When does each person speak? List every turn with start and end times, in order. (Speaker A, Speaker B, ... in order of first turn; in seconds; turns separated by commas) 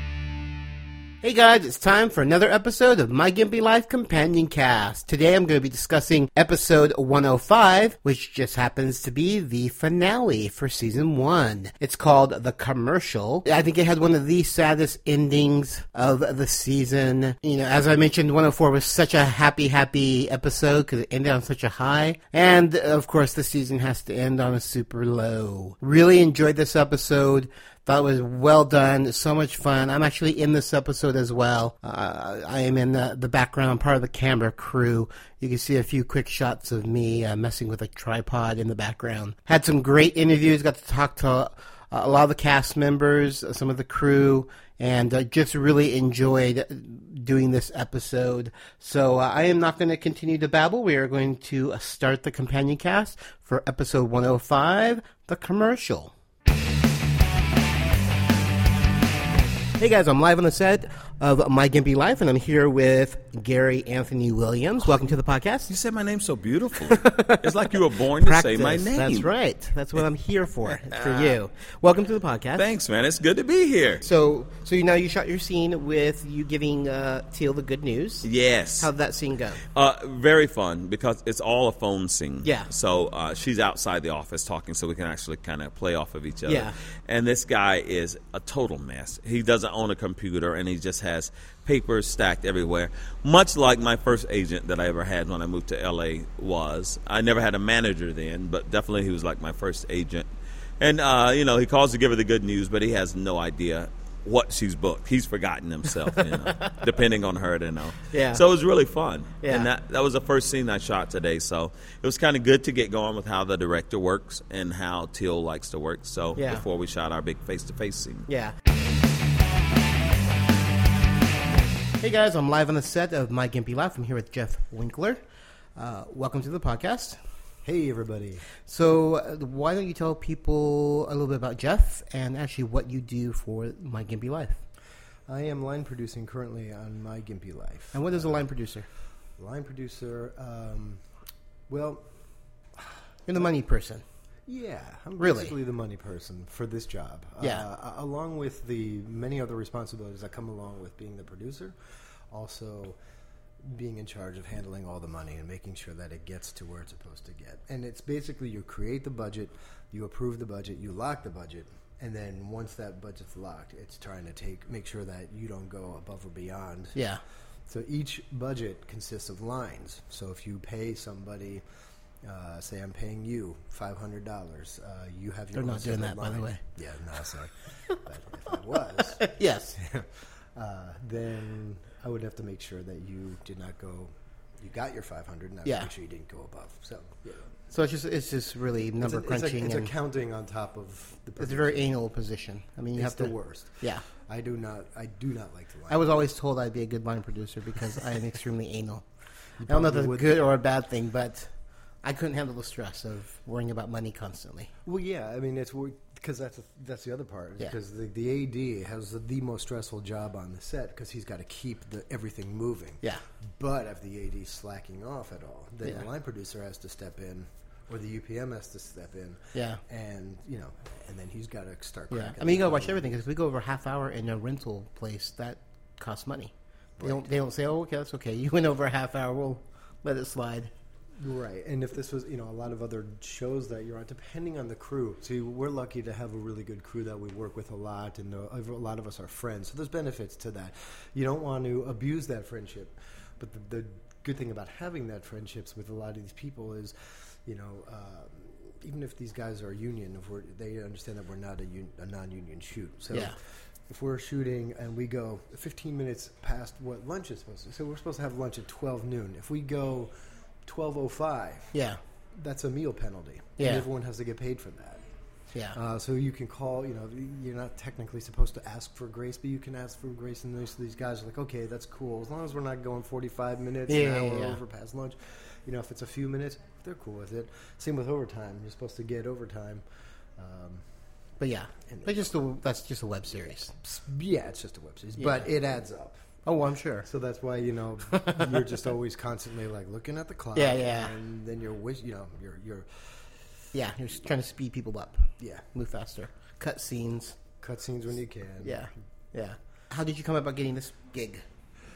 Speaker A: 1.2-56.1, Speaker A: 59.8-65.7, Speaker B: 65.7-69.3, Speaker A: 66.9-72.7, Speaker B: 70.7-71.4, Speaker B: 72.6-74.0, Speaker A: 74.0-78.3, Speaker B: 78.2-78.9, Speaker A: 78.8-79.6, Speaker B: 79.7-100.3, Speaker A: 82.4-82.7, Speaker A: 86.5-86.8, Speaker B: 100.8-118.3, Speaker A: 108.1-108.4, Speaker A: 109.4-109.7, Speaker A: 116.4-116.7, Speaker A: 118.3-118.6, Speaker A: 122.0-125.2, Speaker A: 125.8-127.2, Speaker C: 127.6-128.5, Speaker A: 128.6-134.6, Speaker C: 135.3-138.5, Speaker A: 137.9-138.9, Speaker C: 139.4-141.0, Speaker C: 141.7-142.1, Speaker C: 142.8-143.5, Speaker A: 143.3-144.0, Speaker C: 144.5-151.8, Speaker A: 145.2-145.5, Speaker C: 152.3-153.0, Speaker C: 153.6-167.0, Speaker A: 166.9-167.2, Speaker C: 167.7-171.6, Speaker C: 172.2-187.5, Speaker A: 175.5-176.6, Speaker A: 179.2-179.8, Speaker A: 185.7-185.9, Speaker A: 187.7-189.9, Speaker C: 189.0-192.0, Speaker A: 191.4-194.1, Speaker C: 192.9-196.1, Speaker A: 195.9-199.1, Speaker C: 199.6-200.5, Speaker A: 199.7-204.7, Speaker C: 204.8-223.1, Speaker A: 219.6-219.8, Speaker A: 222.1-230.7, Speaker C: 227.0-227.4, Speaker C: 231.2-260.1, Speaker A: 253.1-253.4, Speaker C: 260.6-261.8, Speaker A: 261.7-262.0, Speaker C: 262.3-265.1, Speaker A: 263.6-263.9, Speaker A: 265.5-265.8, Speaker C: 265.7-279.9, Speaker A: 273.9-274.6, Speaker C: 280.4-280.9, Speaker A: 281.4-283.7, Speaker C: 281.8-282.4, Speaker C: 283.7-286.2, Speaker A: 285.2-285.5, Speaker A: 286.4-287.1, Speaker C: 287.1-293.3, Speaker A: 288.3-288.6, Speaker A: 290.6-291.1, Speaker A: 293.7-297.4, Speaker C: 295.4-295.7, Speaker C: 297.6-298.9, Speaker A: 298.6-301.4